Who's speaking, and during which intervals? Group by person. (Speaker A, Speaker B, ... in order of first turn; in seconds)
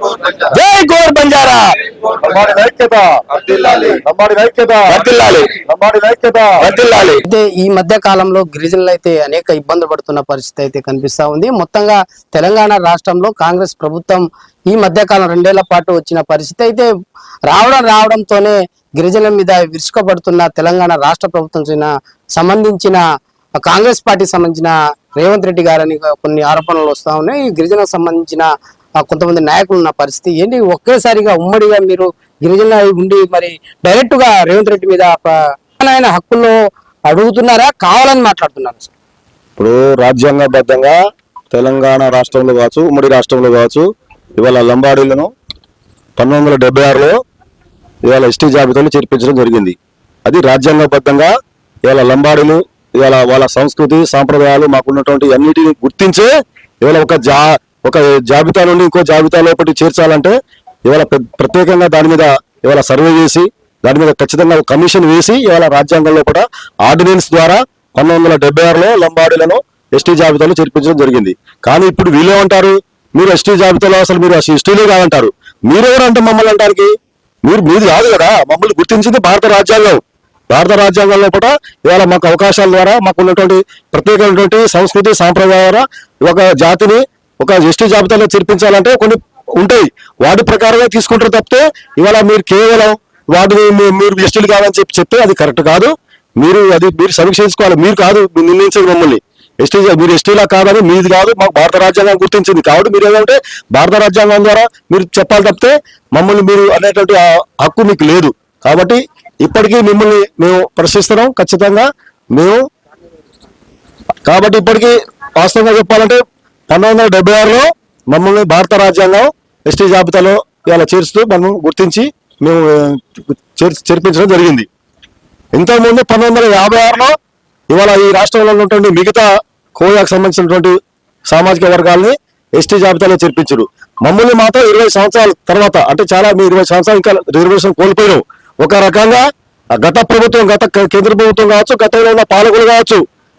Speaker A: 0.3-1.7, 4.9-5.5, 6.6-7.2
Speaker B: 2.1-4.9, 5.6-6.5, 39.6-41.0, 41.5-43.9, 44.4-45.3, 46.2-47.2, 48.0-51.3, 51.8-56.3, 56.8-60.3, 60.9-76.9, 77.4-80.0, 80.5-112.6, 114.2-124.7, 125.5-127.1, 127.7-130.8, 131.3-143.0
Speaker C: 7.2-16.9, 17.5-23.0, 23.6-28.4, 29.0-36.5, 37.1-38.9